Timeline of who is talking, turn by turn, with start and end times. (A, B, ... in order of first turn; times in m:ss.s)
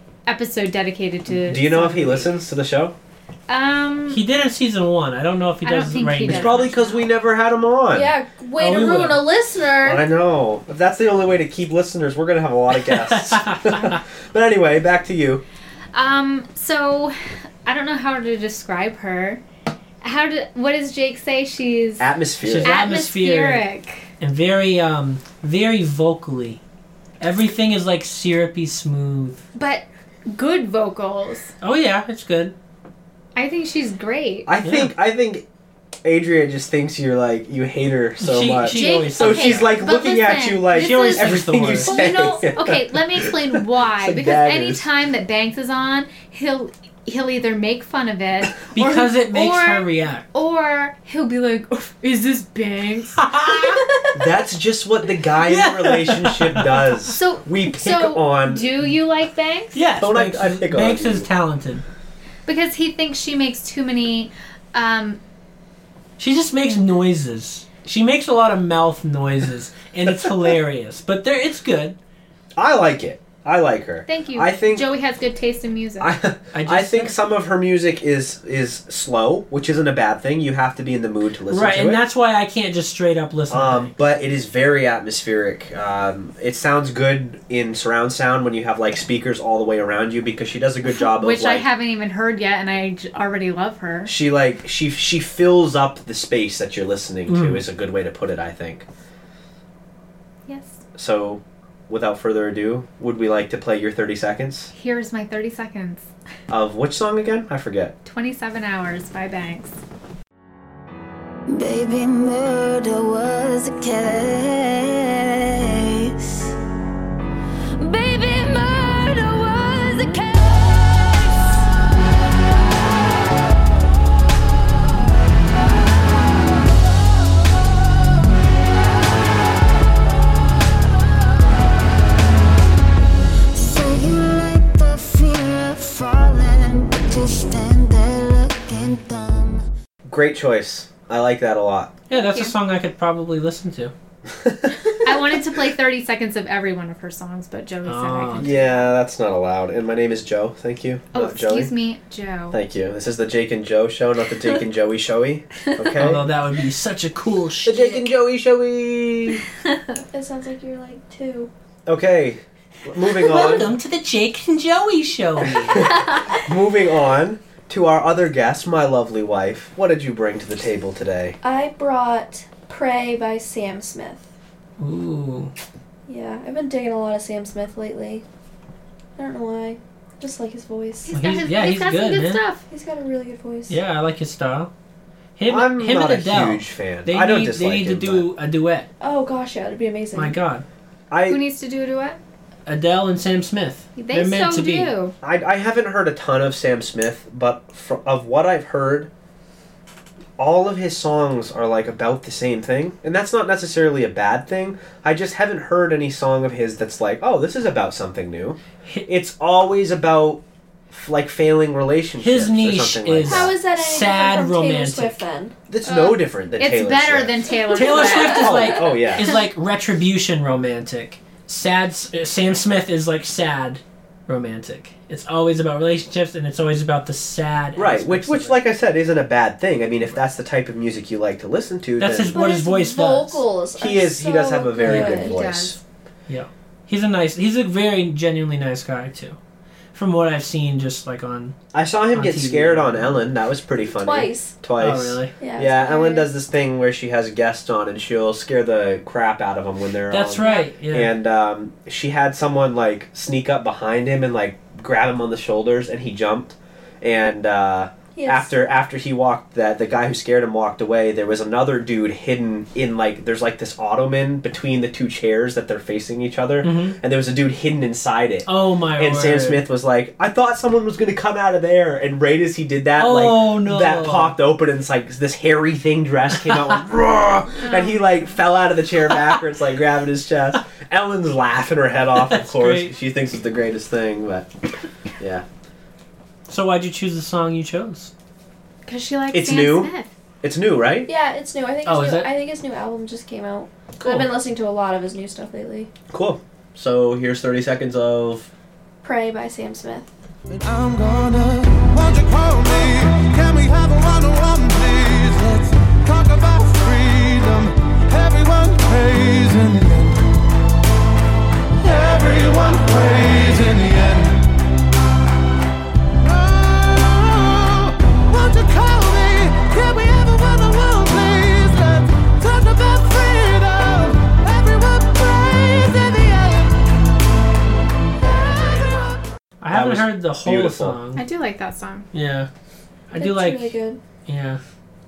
0:00.2-0:02.3 A
0:01.3-0:02.9 B
0:03.5-0:04.2 A
0:04.1-0:06.6 C
0:05.6-0:07.1 A
0:06.2-0:08.1 B
0:07.9-0:10.0 D
0:08.6-0:09.3 C
0:09.8-0:15.4 B
0:12.7-0:14.0 C
0:15.9-0:19.4 A
0:20.0-0:22.1 A
0:22.0-0:22.8 B
0:22.4-0:23.6 C
0:22.6-0:24.1 A
0:24.2-0:26.6 C
0:27.2-0:29.4 C
0:29.5-0:31.5 A
0:31.6-0:32.5 C
0:33.4-0:34.5 A
0:34.5-0:35.4 B
0:34.6-0:34.9 C
0:36.0-0:44.9 B
0:38.2-0:39.8 C
0:38.6-0:54.1 A
0:40.7-0:42.0 C
0:48.7-0:50.2 C
0:53.2-0:53.8 C
0:54.1-0:58.8 B
0:55.5-0:56.9 C
0:57.1-0:59.8 A
0:59.7-1:01.8 C
1:00.0-1:01.3 B
1:02.4-1:05.2 A
1:06.2-1:12.0 C
1:10.0-1:10.3 B
1:12.6-1:14.9 B
1:14.1-1:16.1 A
1:16.0-1:22.0 B
1:16.5-1:17.1 C
1:21.5-1:23.9 C
1:23.5-1:31.7 B
1:30.9-1:34.1 A
1:34.0-1:38.8 B
1:37.3-1:37.6 C
1:40.5-1:40.8 A
1:41.0-1:44.7 B
1:44.7-1:46.1 A
1:46.5-1:47.9 B
1:48.0-1:49.8 A
1:51.5-1:56.5 E
1:57.8-2:01.5 E
2:13.5-2:19.7 E
2:20.0-2:22.0 B
2:22.1-2:23.9 C
2:22.1-2:22.5 A
2:24.3-2:24.9 B
2:25.0-2:28.9 A
2:27.8-2:28.5 C
2:28.4-2:31.7 B
2:31.1-2:32.6 A
2:32.5-2:36.2 B
2:36.0-2:38.0 C
2:37.6-2:39.4 B
2:40.1-2:41.5 D
2:41.9-2:43.7 B
2:43.2-2:45.9 C
2:45.7-2:51.4 B
2:51.4-2:54.2 D
2:54.8-2:55.5 C
2:56.1-2:58.2 D
2:59.2-3:01.1 D
3:01.0-3:02.6 A
3:01.1-3:02.4 C
3:02.7-3:03.8 D
3:03.7-3:04.7 C
3:05.4-3:08.9 C
3:05.5-3:08.3 B
3:09.0-3:10.4 D
3:10.1-3:10.6 C
3:11.1-3:11.4 B
3:11.3-3:12.2 A
3:12.6-3:14.9 C
3:14.0-3:15.1 A
3:15.2-3:19.1 B
3:20.4-3:33.5 B
3:32.2-3:35.2 C
3:33.2-3:35.5 D
3:35.7-3:37.4 B
3:35.8-3:38.6 A
3:37.7-3:38.4 D
3:37.7-3:48.6 C
3:38.1-3:39.4 B
3:47.8-3:52.4 B
3:52.0-3:53.4 C
3:52.3-3:55.4 D
3:53.8-3:55.8 B
3:54.8-3:55.3 C
3:55.2-3:55.8 A
3:56.3-3:59.4 C
3:59.9-4:01.5 C
4:01.7-4:44.5 B
4:02.1-4:03.1 C
4:03.9-4:04.5 D
4:04.8-4:05.3 C
4:05.4-4:06.3 D
4:10.1-4:11.1 C
4:10.4-4:10.7 A
4:18.2-4:18.5 D
4:26.6-4:27.0 C
4:28.4-4:29.6 C
4:33.0-4:34.4 C
4:37.6-4:38.2 A
4:42.2-4:42.9 C
4:45.2-4:45.4 B
4:46.5-4:48.1 C
4:48.8-4:50.1 A
4:49.3-4:51.1 B
4:51.0-4:55.9 D
4:51.8-4:52.3 C
4:54.0-4:54.3 C
4:56.1-4:58.5 B
4:59.0-5:00.1 D
5:00.5-5:10.2 F
5:11.8-5:14.5 F
5:16.2-5:26.8 F
5:28.2-5:29.2 F
5:29.6-5:31.2 C
5:29.7-5:31.0 B
5:31.2-5:32.1 A
5:32.1-5:32.5 C
5:33.1-5:34.6 C
5:33.1-5:34.0 D